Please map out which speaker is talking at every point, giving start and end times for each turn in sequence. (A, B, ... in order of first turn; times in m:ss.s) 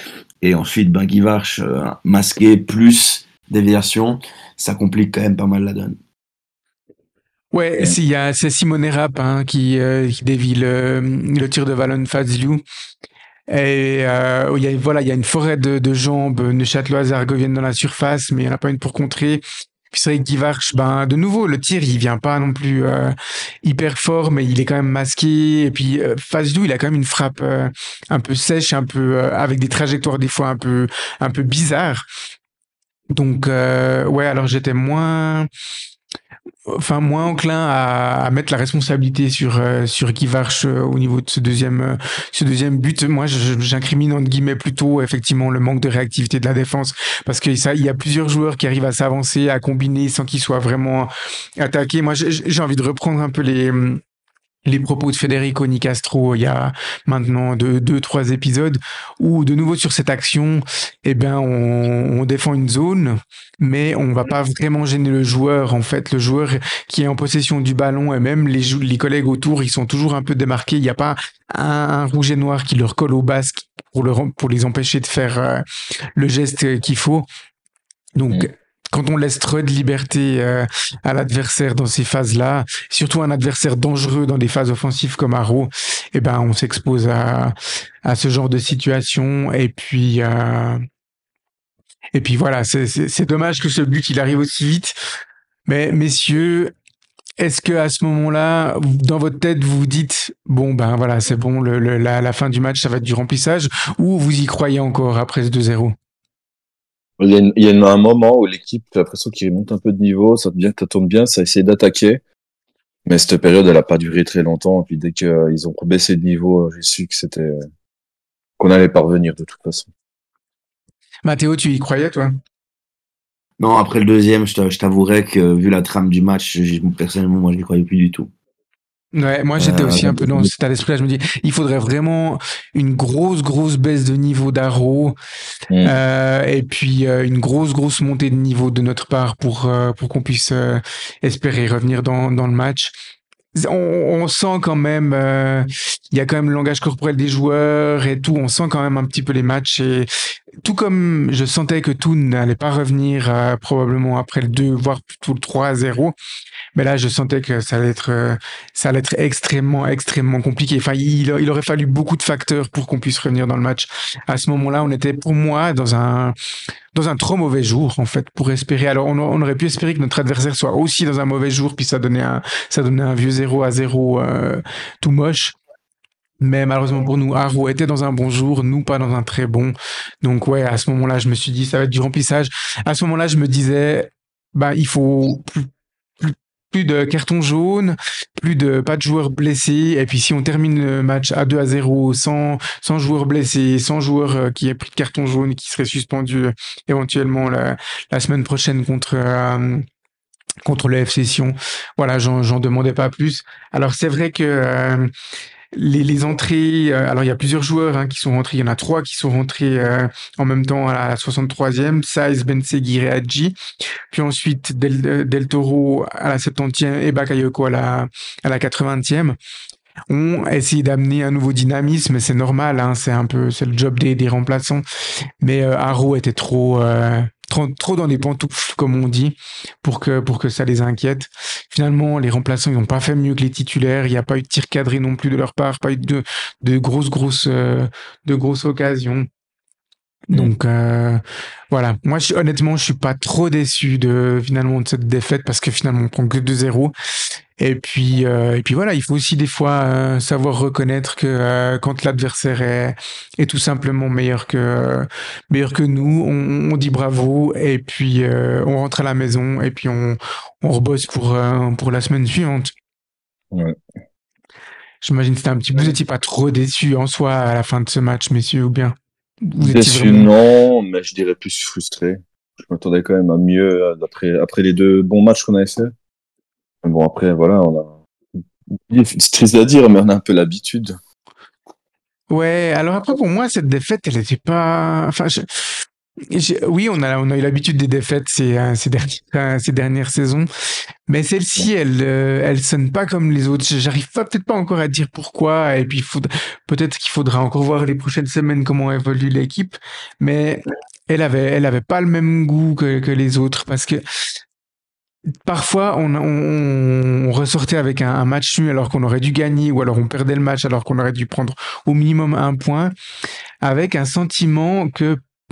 0:00.4-0:06.0 A
0:07.5-0:12.6 B
0:13.5-0:32.1 B
0:33.1-0:35.5 B
0:36.7-0:54.0 B
0:54.7-1:15.6 B
1:16.2-1:17.3 B
1:18.2-1:30.8 B
1:32.1-1:35.0 B
1:35.7-1:36.7 B
1:37.4-1:46.0 B
1:47.2-1:52.2 C
1:53.1-1:57.6 C
1:58.6-1:59.9 C
2:01.2-2:02.3 B
2:03.6-2:08.3 A
2:09.1-2:15.2 B
2:09.6-2:10.5 C
2:15.7-2:16.0 C
2:15.8-2:23.0 B
2:23.6-2:30.1 B
2:30.6-2:36.1 B
2:36.8-2:46.4 B
2:46.9-2:55.6 B
2:56.4-3:05.7 B
3:06.2-3:19.8 B
3:20.6-3:25.1 B
3:25.7-3:33.6 B
3:34.1-3:39.4 B
3:40.1-3:44.8 B
3:45.4-3:59.3 B
4:00.3-4:06.9 B
4:07.6-4:22.7 B
4:23.5-4:23.8 C
4:25.0-4:30.3 B
4:29.6-4:35.9 C
4:36.8-4:38.0 C
4:38.8-4:41.0 C
4:42.3-4:50.5 B
4:51.1-5:04.0 B
5:05.4-5:12.9 B
5:13.6-5:15.2 B